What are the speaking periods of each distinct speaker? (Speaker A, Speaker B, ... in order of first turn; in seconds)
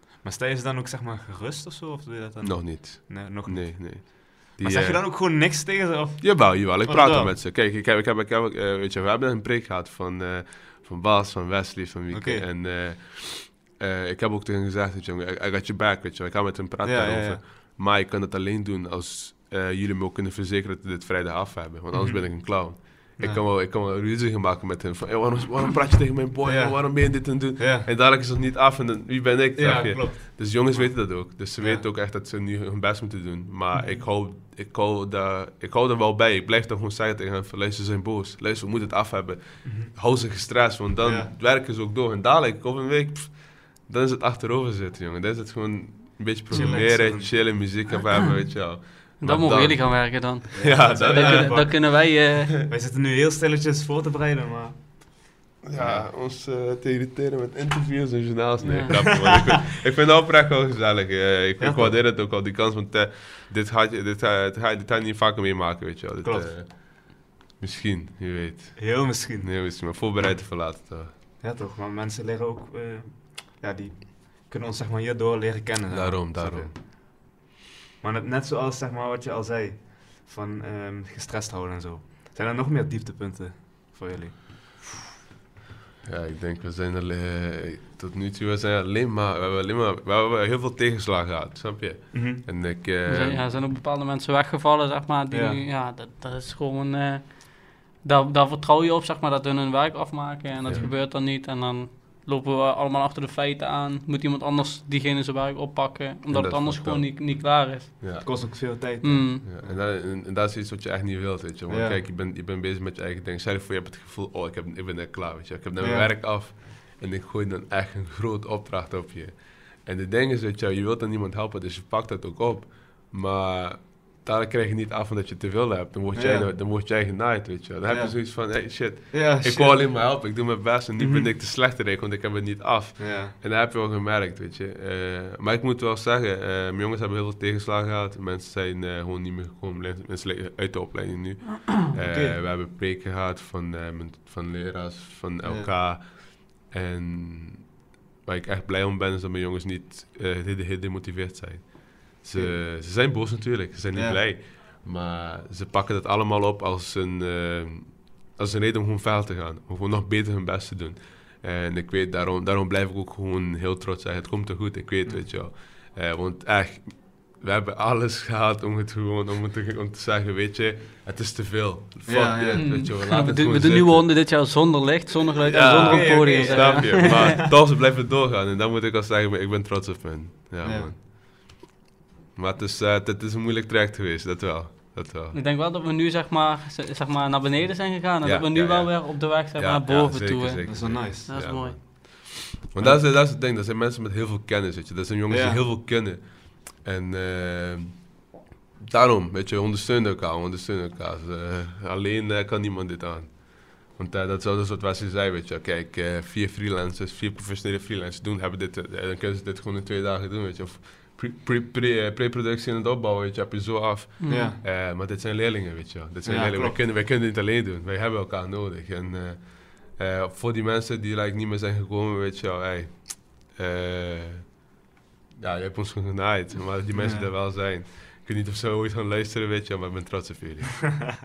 Speaker A: 0.2-7.3, 12.1-12.5, 16.8-17.4, 21.9-23.4, 26.4-27.9, 29.6-31.9, 33.7-34.0, 39.6-40.2, 41.0-41.3, 46.5-47.9, 50.6-56.1, 61.6-62.0, 66.2-66.5, 68.8-70.2, 71.4-76.8, 78.0-84.5, 92.1-92.4, 95.3-95.6, 108.2-109.8, 111.7-112.0, 115.8-116.2, 126.1-126.5, 127.9-130.4, 131.0-131.3, 133.0-133.3, 141.9-142.3, 145.4-145.7, 152.3-152.7, 153.9-154.2, 172.1-172.8, 175.6-177.4, 180.6-180.9, 190.6-191.6, 192.8-193.1, 195.3-195.6, 214.3-214.6, 216.2-216.8, 226.9-227.3
Speaker B: 2.4-5.0, 6.2-51.8, 55.6-71.2, 75.9-76.8, 86.0-93.5, 100.6-100.9, 106.3-108.3, 109.4-174.6, 175.4-181.6, 182.3-185.4, 188.2-224.7, 225.4-231.1
Speaker C: 46.5-46.8, 49.2-52.6, 58.6-59.0, 93.1-108.5, 109.0-109.4, 172.6-177.3, 185.3-192.1, 214.2-214.5